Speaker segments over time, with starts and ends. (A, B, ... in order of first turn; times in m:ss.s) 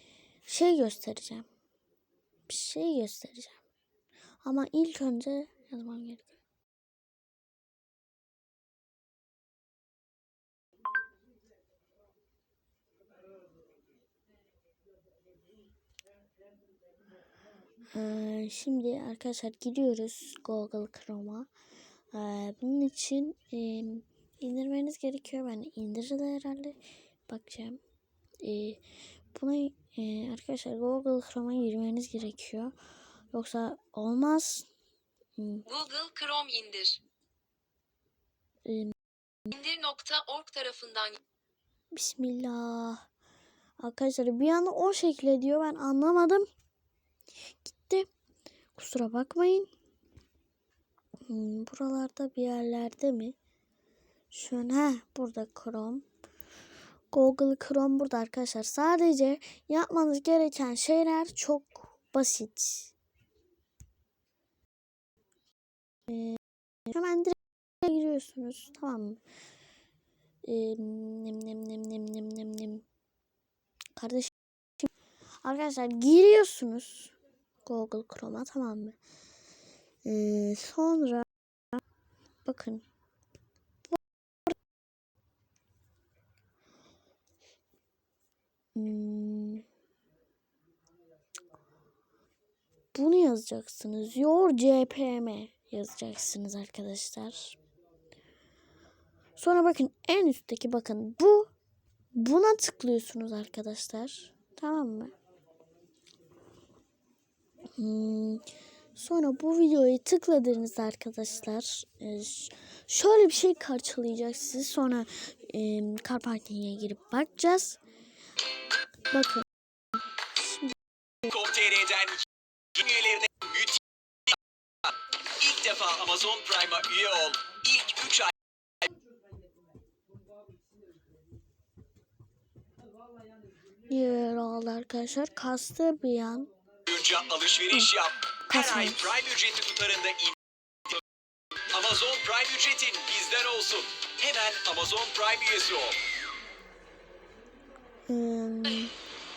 0:00.5-0:01.5 A
0:02.5-0:03.6 A
0:04.4-0:06.4 A
0:17.9-0:21.5 A
0:22.1-0:27.8 A
0:28.4-0:28.8 A
0:29.3-0:32.7 A
0:33.3-0:34.7 A
0:35.4-0:35.6 A
0:35.6-0:37.0 B
0:38.6-0:38.9 A
0:39.5-0:41.2 B
0:41.9-0:43.0 A
0:43.8-0:46.4 A
0:47.6-0:48.1 A
0:48.7-0:49.7 A
0:51.3-0:53.4 A
0:54.3-0:56.0 A
0:57.1-1:02.9 A
1:06.1-1:09.2 A
1:10.4-1:12.8 A
1:14.0-1:14.9 A
1:15.4-1:19.0 A
1:20.0-1:21.8 A
1:22.4-1:22.8 A
1:23.9-1:24.5 A
1:28.7-1:29.6 A
1:32.9-1:37.6 A
1:39.4-1:41.5 A
1:42.1-1:45.1 A
1:47.8-1:57.8 A
1:59.1-1:59.5 A
2:00.3-2:00.8 A
2:01.3-2:03.8 C
2:05.3-2:08.3 C
2:13.9-2:16.5 A
2:16.9-2:20.4 C
2:18.5-2:19.1 A
2:21.7-2:26.0 C
2:28.1-2:28.9 A